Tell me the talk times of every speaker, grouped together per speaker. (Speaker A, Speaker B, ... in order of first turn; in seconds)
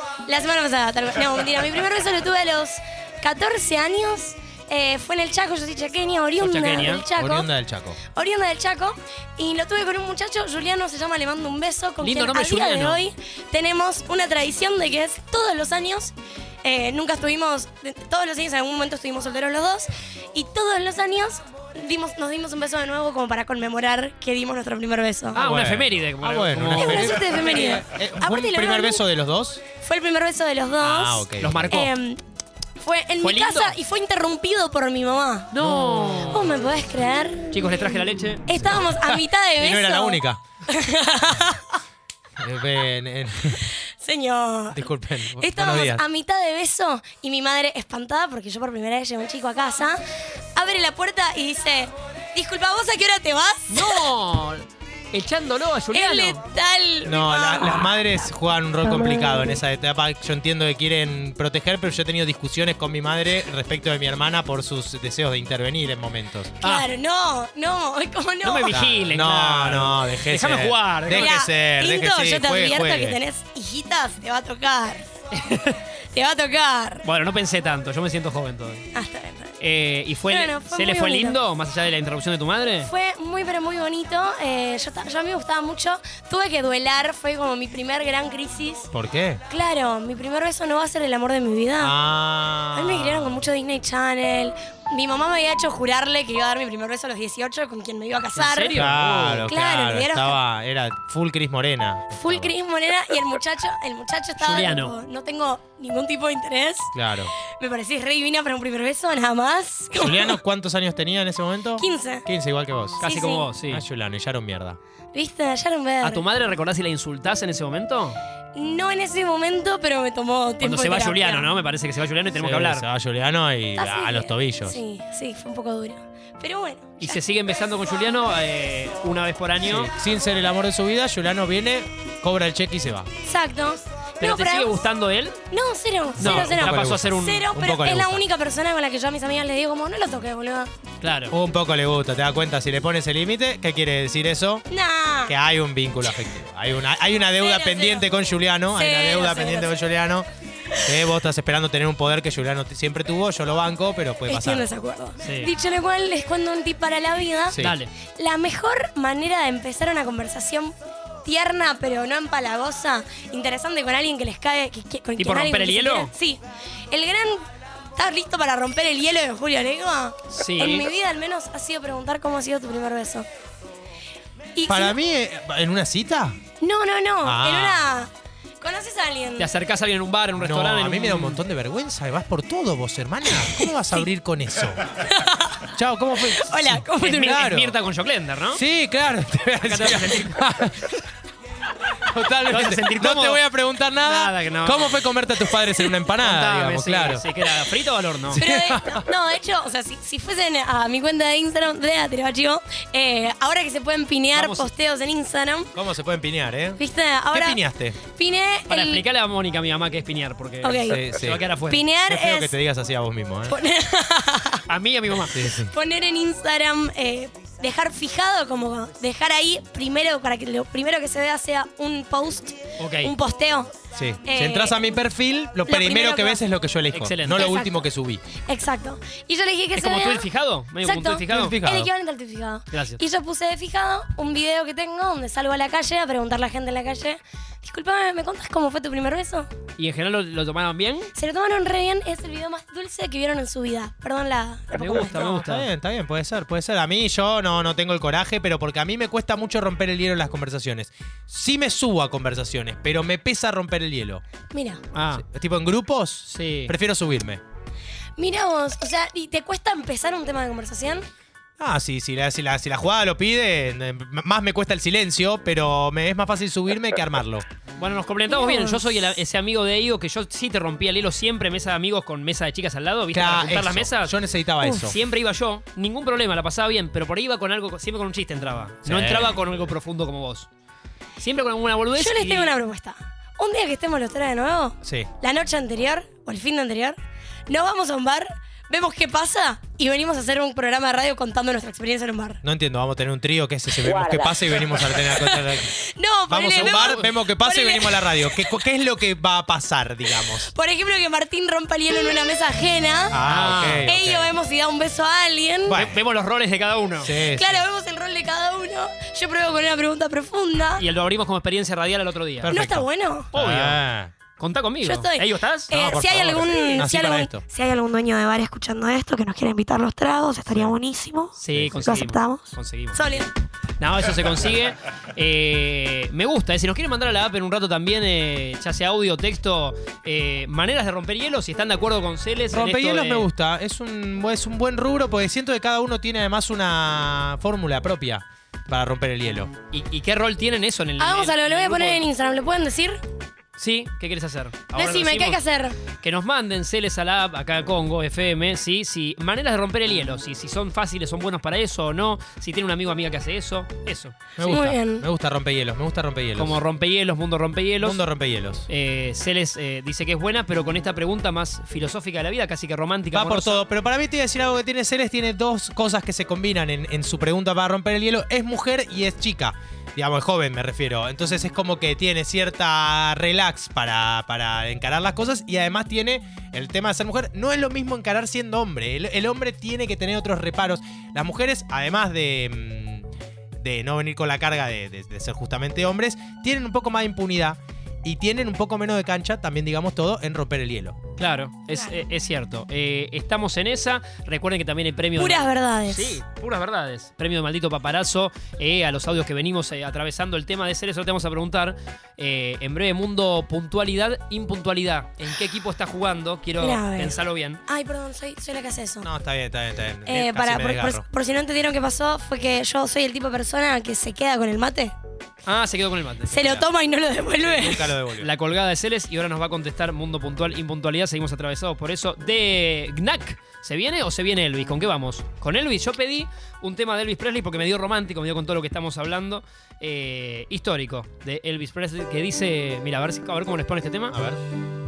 Speaker A: 0.3-7.5, 8.1-25.4, 26.7-29.0, 29.8-32.2, 32.8-35.5, 36.3-37.5, 38.5-41.8, 43.6-50.0, 50.5-54.0, 55.9-58.2, 58.8-59.6, 66.6-68.8, 71.1-75.1, 76.1-77.0, 78.9-79.6, 80.3-81.4, 82.8-88.9, 89.5-91.9, 92.7-98.8, 99.5-100.4, 102.1-110.4, 111.8-112.2, 113.0-113.5, 115.1-116.2, 118.5-121.5, 123.8-127.2, 133.2-134.8, 135.5-140.7, 144.7-145.3, 147.3-148.1, 148.7-149.7, 154.3-160.7, 161.2-166.4, 166.9-167.4, 167.9-173.2, 174.6-175.0, 176.6-178.1, 178.6-179.5, 183.4-184.0, 185.1-187.4, 198.3-205.7, 206.8-209.0, 210.6-211.0, 211.7-212.5, 213.5-214.6, 215.6-225.0, 225.7-226.4, 227.3-230.3, 230.8-239.5, 241.1-245.3, 254.5-254.8, 258.2-261.1, 268.3-268.9, 281.9-287.0, 287.5-292.4, 293.8-298.5, 300.2-303.2, 303.8-305.8, 307.1-310.8, 312.5-313.3, 314.8-323.3, 341.0-343.0, 344.7-345.8, 354.4-355.1, 391.7-392.0, 395.1-396.2, 406.6-409.1, 410.1-414.9, 416.3-417.9
Speaker B: 6.4-7.0, 12.0-13.0, 25.3-27.2, 31.4-31.9, 33.2-33.8, 35.5-36.5, 37.5-38.8, 53.7-56.4, 66.6-66.9, 68.4-71.3, 75.3-75.8, 77.0-78.9, 79.6-82.9, 98.3-99.5, 104.4-104.9, 113.0-113.8, 116.0-118.2, 120.6-122.8, 127.0-129.9, 134.2-135.4, 136.2-137.5, 141.0-141.3, 155.2-155.5, 157.6-157.9, 165.2-166.1, 170.3-170.9, 179.4-181.4, 187.0-188.6, 189.6-190.4, 192.4-193.4, 194.0-195.1, 196.2-198.4, 204.3-204.7, 208.7-211.8, 214.7-215.4, 222.8-223.1, 226.9-227.5, 229.8-231.6, 232.7-233.0, 239.8-241.1, 244.7-245.7, 254.9-255.2, 256.3-256.7, 267.8-280.5, 281.2-282.6, 296.5-297.0, 303.2-303.9, 305.7-307.1, 310.8-312.6, 313.3-313.8, 314.4-315.7, 321.4-323.2, 323.8-333.3, 339.7-342.0, 343.6-345.4, 345.9-354.1, 356.4-358.0, 358.7-363.6, 391.2-407.6, 415.4-416.6, 418.2-434.2
Speaker C: 7.2-8.0, 25.4-29.6, 30.8-31.8, 35.6-36.5, 38.6-39.1, 39.6-40.4, 42.4-43.7, 44.7-46.0, 57.0-66.5, 68.7-73.2, 88.9-89.4, 91.8-93.4, 98.7-102.5, 106.9-107.3, 110.0-113.0, 113.6-114.8, 122.4-124.8, 129.6-133.1, 136.2-138.2, 141.3-144.7, 145.3-150.2, 150.8-154.7, 157.5-157.8, 174.7-176.4, 177.2-177.9, 180.4-184.8, 185.7-187.7, 188.5-191.0, 192.1-197.2, 198.3-199.0, 205.7-206.8, 207.3-208.0, 210.9-211.4, 212.1-213.6, 215.3-215.7, 223.9-228.2, 231.3-231.9, 245.1-254.2, 255.2-257.4, 261.6-267.4, 273.1-275.0, 278.8-279.4, 284.8-285.1, 292.4-295.7, 296.3-300.5, 303.1-304.3, 305.7-306.0, 307.0-307.6, 312.4-314.1, 315.7-317.4, 320.5-320.7, 321.5-322.0, 332.5-339.5, 354.4-356.6, 357.8-358.7, 363.1-383.1, 383.6-390.9, 409.0-411.0, 417.4-418.3, 434.1-434.4